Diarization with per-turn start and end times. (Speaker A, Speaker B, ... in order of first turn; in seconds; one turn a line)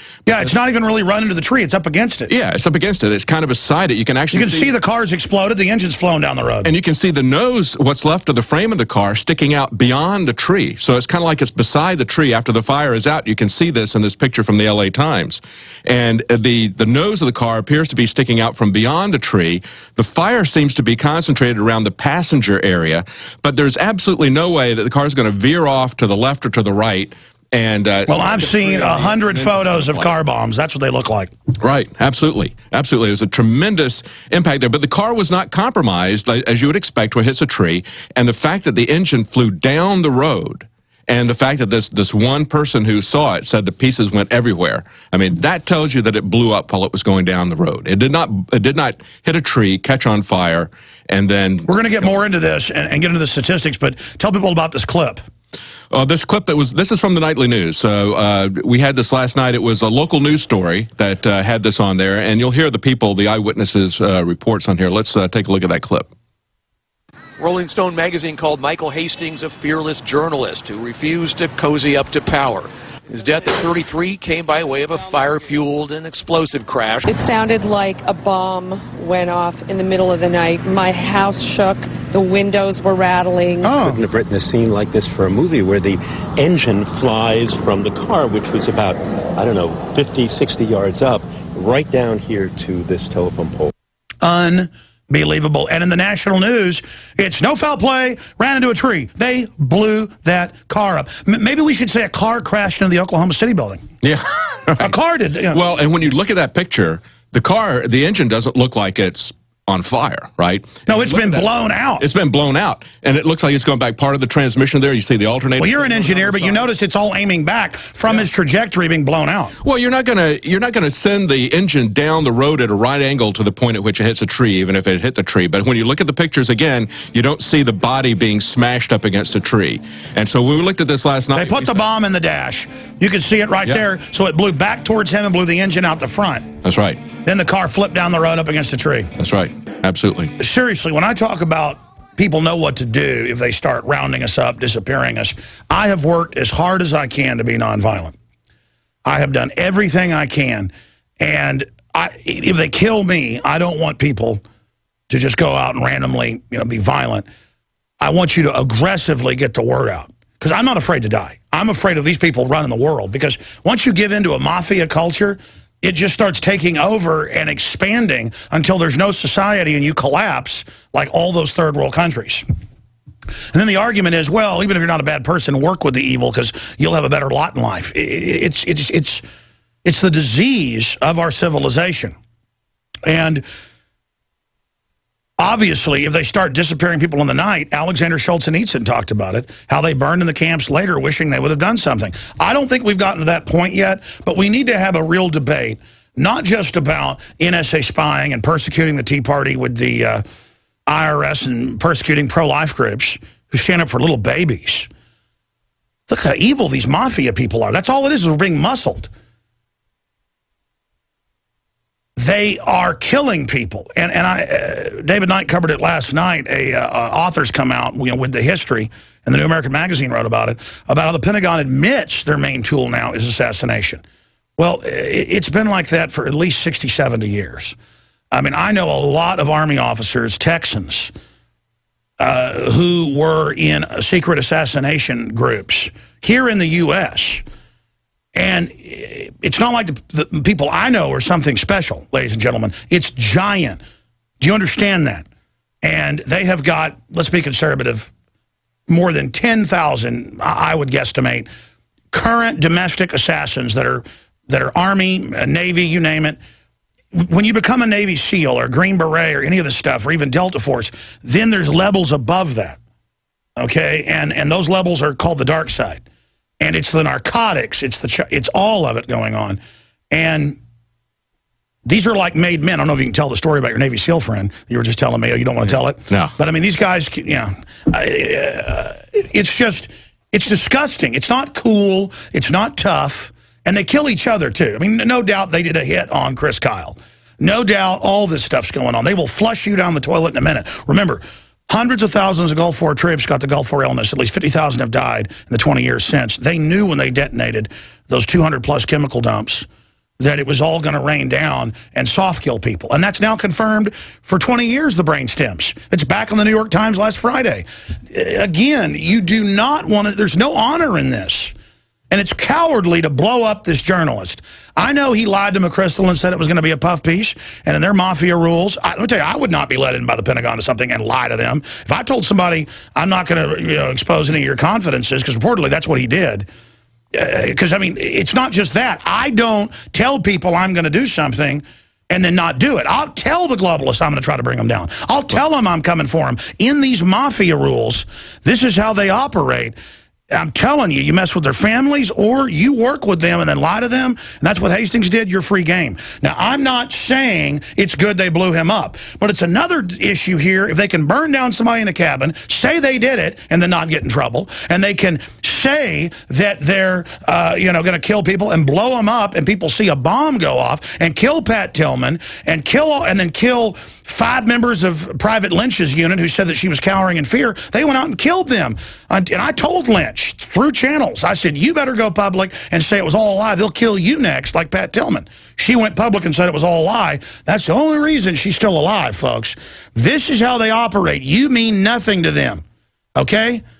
Speaker A: 0.2-2.3
Speaker B: 2.3-4.7
Speaker A: 4.3-6.7
Speaker B: 6.6-30.1
Speaker A: 28.1-31.3
Speaker B: 31.6-52.1
Speaker A: 51.7-55.2
Speaker B: 55.9-66.1
Speaker C: 67.4-77.1
Speaker D: 77.1-83.7
Speaker A: 83.6-84.0
Speaker E: 83.7-93.7
Speaker A: 94.2-103.8
Speaker B: 104.0-104.9
Speaker A: 104.8-105.6
Speaker B: 105.5-116.7
Speaker A: 110.9-112.0
Speaker A: 115.6-119.5
Speaker B: 119.6-131.8
Speaker A: 131.3-136.5
Speaker B: 136.6-137.0
Speaker A: 137.2-139.1
Speaker B: 139.2-140.3
Speaker A: 140.4-148.1
Speaker A: 149.0-154.4
Speaker A: 155.1-157.2
Speaker A: 158.0-172.4
Speaker A: 173.5-179.2
Speaker A: 179.8-182.1
Speaker A: 183.0-183.4
Speaker A: 185.4-200.2
Speaker A: 200.9-204.9
Speaker A: 206.1-209.1
Speaker A: 212.2-224.0
Speaker A: 224.6-227.8
Speaker A: 228.3-231.1
Speaker A: 232.2-237.4
Speaker A: 238.3-243.8
Speaker A: 244.4-245.2
Speaker A: 245.8-248.1
Speaker A: 248.9-251.5
Speaker A: 252.1-256.4
Speaker A: 257.1-262.8
Speaker A: 263.6-266.0
Speaker A: 266.6-269.6
Speaker A: 270.1-270.6
Speaker A: 271.8-299.7
Speaker A: 300.2-311.5
Speaker A: 312.1-326.5
Speaker A: 327.1-339.8
Speaker A: 340.3-382.6
Speaker A: 383.1-383.6